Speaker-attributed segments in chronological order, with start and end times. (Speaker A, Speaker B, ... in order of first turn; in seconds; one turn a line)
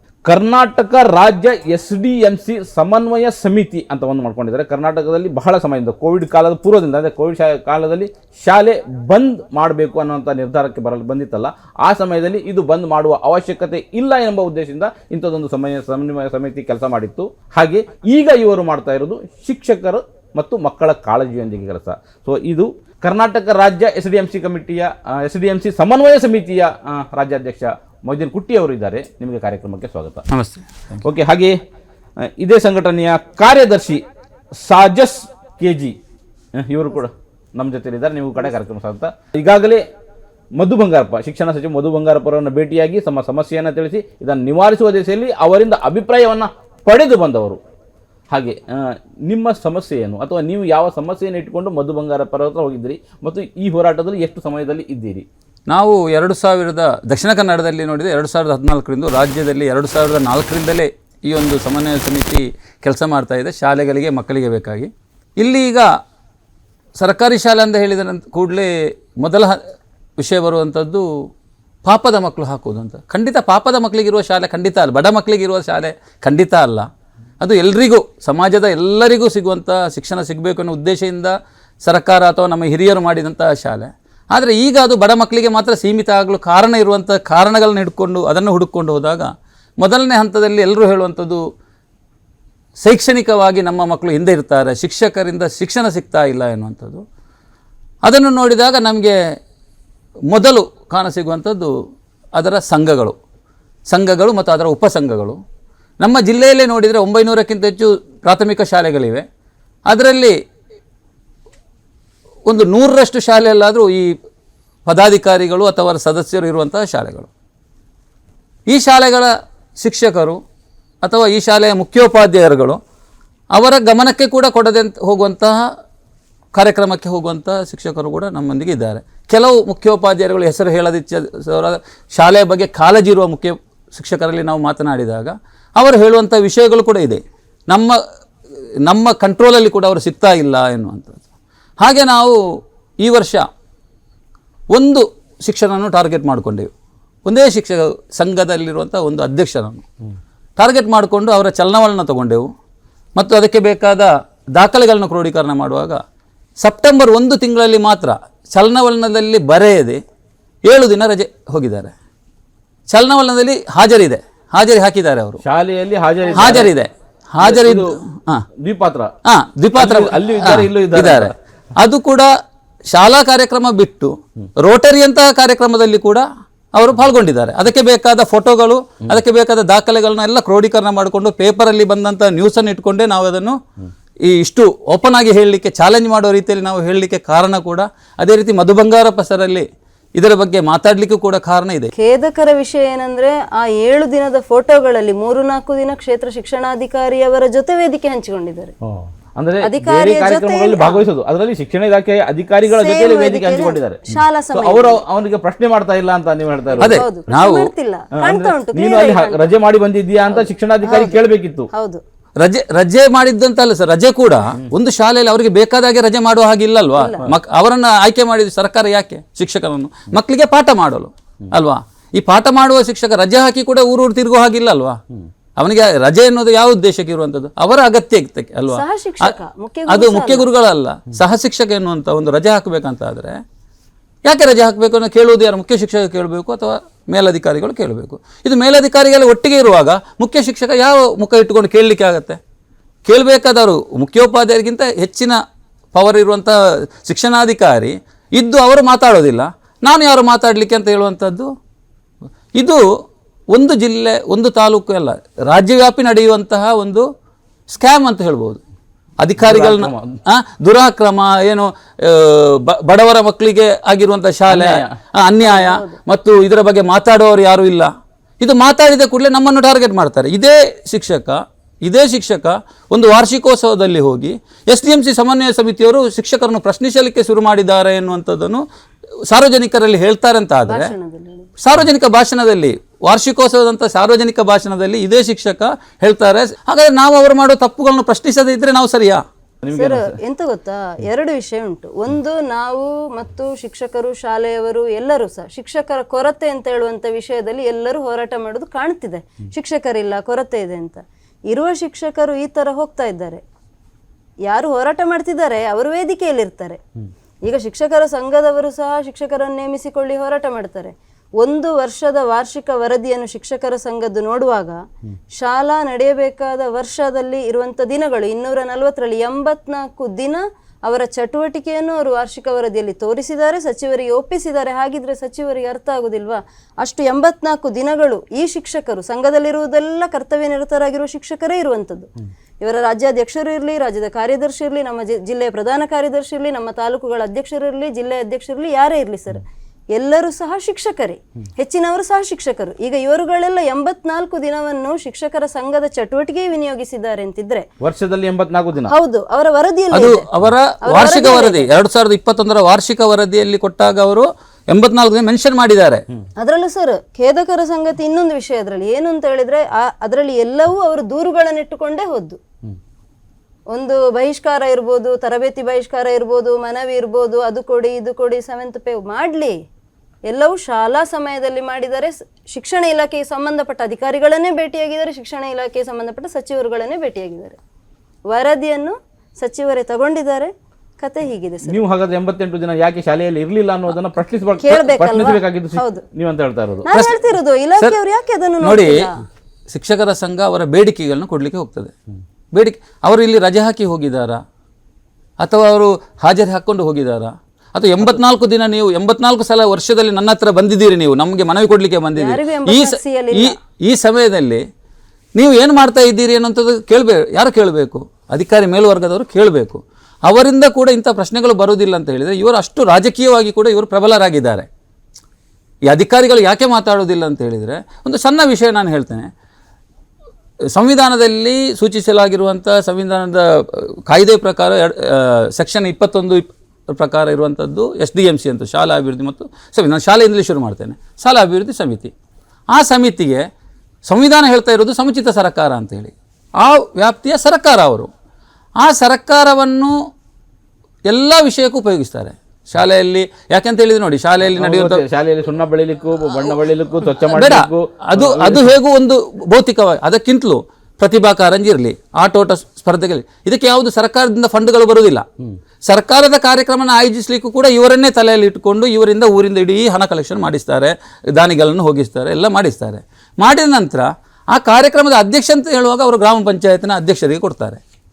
Speaker A: 0.3-30.2
Speaker B: 30.3-30.6
Speaker A: 31.0-31.6
Speaker A: 32.2-36.0
Speaker A: 36.5-39.8
Speaker A: 40.6-47.6
Speaker A: 48.3-55.2
Speaker B: 55.7-65.9
Speaker B: 67.0-69.6
Speaker B: 70.2-71.3
Speaker B: 71.8-76.9
Speaker B: 77.4-91.4
Speaker B: 92.8-97.0
Speaker B: 98.0-99.2
Speaker B: 100.3-101.8
Speaker B: 102.3-103.2
Speaker B: 103.9-105.4
Speaker B: 106.0-109.2
Speaker B: 109.9-110.4
Speaker B: 112.5-114.1
Speaker B: 114.8-117.3
Speaker B: 118.7-120.4
Speaker B: 121.0-122.8
Speaker B: 123.5-125.7
Speaker B: 126.5-138.0
Speaker B: 138.8-141.2
Speaker B: 141.8-142.4
Speaker B: 143.0-143.4
Speaker B: 144.7-146.7
Speaker B: 147.2-149.8
Speaker B: 150.6-152.5
Speaker B: 153.2-156.0
Speaker B: 156.6-160.0
Speaker B: 160.7-161.9
Speaker B: 162.9-165.4
Speaker A: 165.4-166.7
Speaker B: 166.3-168.4
Speaker A: 167.4-168.0
Speaker A: 168.6-169.1
Speaker B: 169.2-172.3
Speaker A: 169.7-171.3
Speaker B: 172.9-183.6
Speaker B: 184.2-191.9
Speaker C: 191.9-198.7
Speaker A: 198.8-207.0
Speaker C: 199.6-201.0
Speaker C: 202.7-205.0
Speaker C: 206.8-209.5
Speaker B: 206.8-207.7
Speaker A: 208.2-211.7
Speaker C: 210.3-211.2
Speaker C: 211.7-212.0
Speaker B: 212.4-225.0
Speaker B: 225.6-229.3
Speaker C: 228.7-230.5
Speaker B: 229.9-233.4
Speaker B: 234.2-242.4
Speaker B: 243.1-245.4
Speaker B: 245.9-251.5
Speaker B: 252.5-252.8
Speaker B: 253.5-257.1
Speaker B: 257.7-258.6
Speaker B: 259.2-278.6
Speaker A: 259.4-260.1
Speaker A: 264.5-264.9
Speaker C: 265.4-266.0
Speaker B: 279.2-280.9
Speaker C: 280.7-281.5
Speaker B: 281.6-289.2
Speaker A: 289.6-290.1
Speaker C: 289.7-303.4
Speaker C: 304.5-306.8
Speaker C: 307.4-314.8
Speaker C: 315.4-332.1
Speaker C: 332.6-347.6
Speaker A: 347.8-348.9
Speaker C: 348.9-350.2
Speaker B: 349.9-356.0
Speaker C: 350.8-351.7
Speaker C: 356.4-362.4
Speaker C: 363.7-369.6
Speaker C: 370.3-377.6
Speaker C: 378.3-381.8
Speaker A: 381.6-386.9
Speaker C: 384.6-386.0
Speaker C: 386.8-389.2
Speaker B: 386.9-387.2
Speaker B: 388.6-389.1
Speaker B: 389.7-391.9
Speaker B: 392.5-394.4
Speaker B: 395.4-404.6
Speaker C: 402.1-403.6
Speaker B: 405.3-414.7
Speaker B: 415.9-419.3
Speaker B: 420.7-432.1
Speaker B: 432.7-433.5
Speaker B: 434.1-438.1
Speaker B: 438.8-439.9
Speaker B: 441.1-445.0
Speaker A: 444.5-448.7
Speaker B: 447.3-455.2
Speaker B: 455.9-467.8